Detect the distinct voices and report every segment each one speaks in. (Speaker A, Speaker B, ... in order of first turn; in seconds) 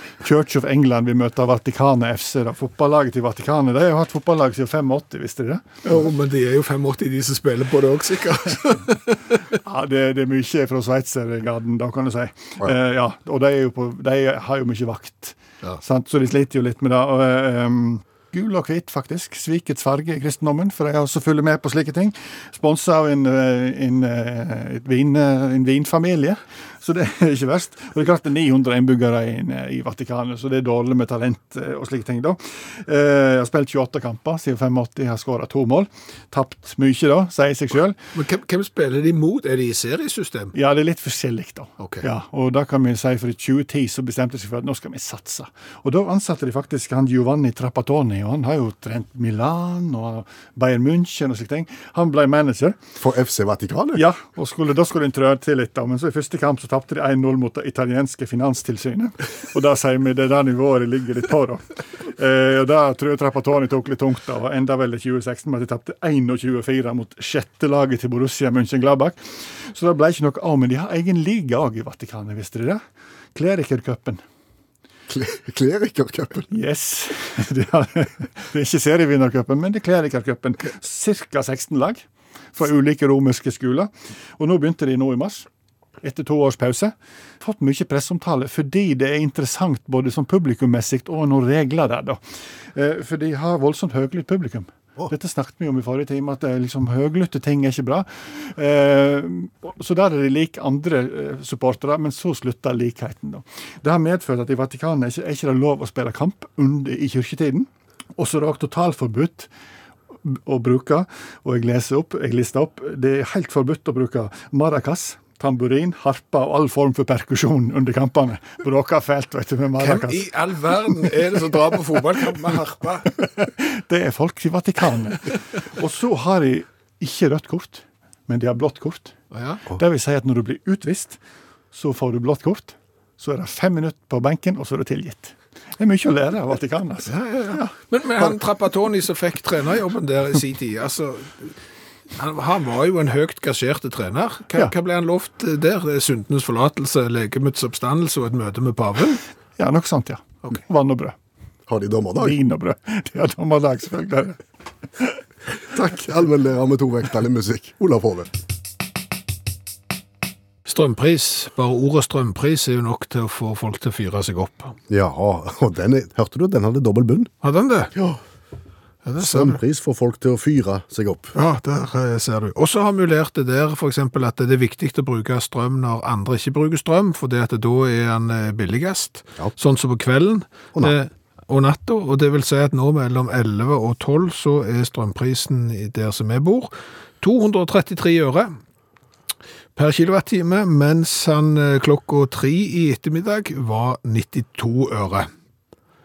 Speaker A: 0.2-5.6, 9.6-38.0, 40.5-52.8, 53.9-72.8, 73.3-74.2, 76.5-85.5, 86.0-92.2, 92.7-109.5, 110.2-121.7, 123.2-129.2, 129.7-131.2, 131.7-137.7, 149.6-151.2, 152.2-154.4
Speaker B: 5.8-9.4, 38.1-40.5, 41.8-42.0, 119.8-123.1, 129.3-129.7, 137.1-141.6, 142.1-149.2, 160.7-164.8, 167.4-167.9, 169.0-169.6, 171.3-188.6, 189.8-195.3
Speaker C: 53.0-54.0, 75.1-76.5, 151.7-152.4, 155.6-158.3, 164.9-167.3, 167.9-168.2, 169.2-171.3